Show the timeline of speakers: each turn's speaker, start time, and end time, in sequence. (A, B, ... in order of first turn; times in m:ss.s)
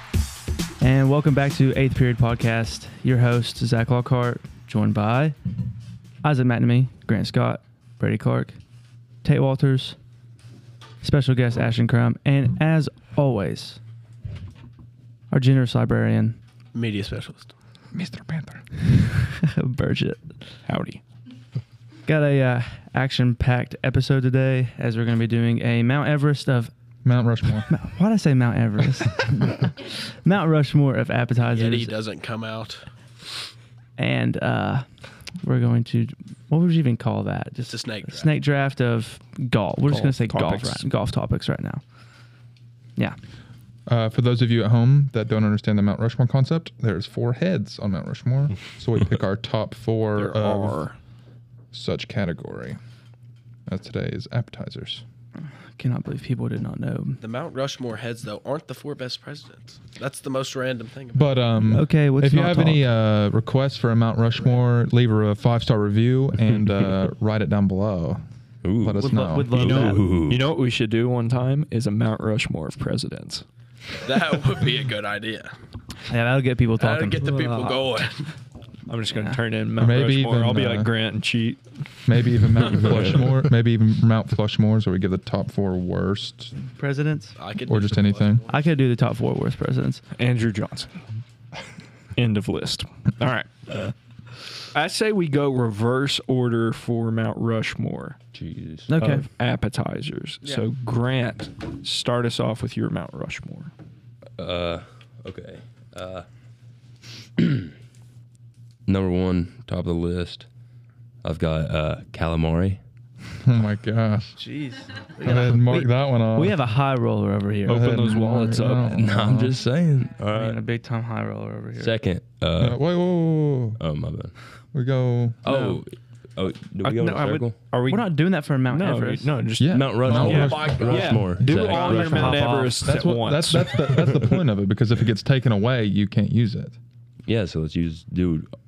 0:00.8-0:05.4 A
0:06.2-0:08.6 A
0:09.2-0:10.0 A
0:11.0-0:13.8 A
0:15.3-0:16.4 A
0:16.7-0:17.5 B
0:17.9-0:18.6 C
0:18.9-0:20.4 A
0:20.6-0:21.0 D
0:22.0-0:26.7 A
0:27.0-0:27.7 C
0:27.7-0:31.9 A
0:31.5-0:32.8 B
0:34.0-0:34.8 A
0:35.4-0:41.8 A
0:37.7-0:38.3 B
0:39.9-0:40.9 D
0:43.9-0:50.8 C
0:50.1-0:51.0 D
0:51.7-0:52.8 C
0:53.7-0:55.0 C
0:55.7-0:57.2 A
0:57.2-1:01.6 B
1:01.1-1:08.2 C
1:01.7-1:02.8 A
1:08.6-1:10.5 E
1:08.8-1:09.8 C
1:09.0-1:10.0 A
1:09.7-1:13.4 D
1:14.0-1:15.5 B
1:16.1-1:17.2 A
1:16.8-1:18.1 B
1:17.2-1:17.8 D
1:18.9-1:21.6 D
1:19.8-1:20.9 C
1:22.1-1:26.5 C
1:26.7-1:27.4 A
1:27.4-1:28.7 B
1:27.6-1:28.4 C
1:28.5-1:30.0 A
1:30.2-1:31.0 D
1:32.2-1:33.9 D
1:34.7-1:38.2 D
1:38.3-1:38.9 E
1:38.9-1:39.2 A
1:39.0-1:43.7 D
1:44.4-1:46.2 E
1:47.4-1:47.7 E
1:48.9-1:50.5 E
1:51.2-1:52.8 E
1:53.4-1:54.4 C
1:54.4-1:57.8 A
1:55.2-1:56.6 C
1:57.6-1:59.0 D
1:57.7-1:59.6 C
1:58.9-2:00.6 E
2:00.3-2:01.9 A
2:01.8-2:02.8 E
2:02.6-2:03.8 C
2:03.8-2:04.3 E
2:04.7-2:05.4 C
2:05.4-2:07.6 E
2:06.8-2:14.1 D
2:07.9-2:09.3 A
2:09.6-2:16.8 C
2:09.7-2:12.4 E
2:10.1-2:11.2 B
2:11.4-2:12.8 A
2:17.2-2:18.5 E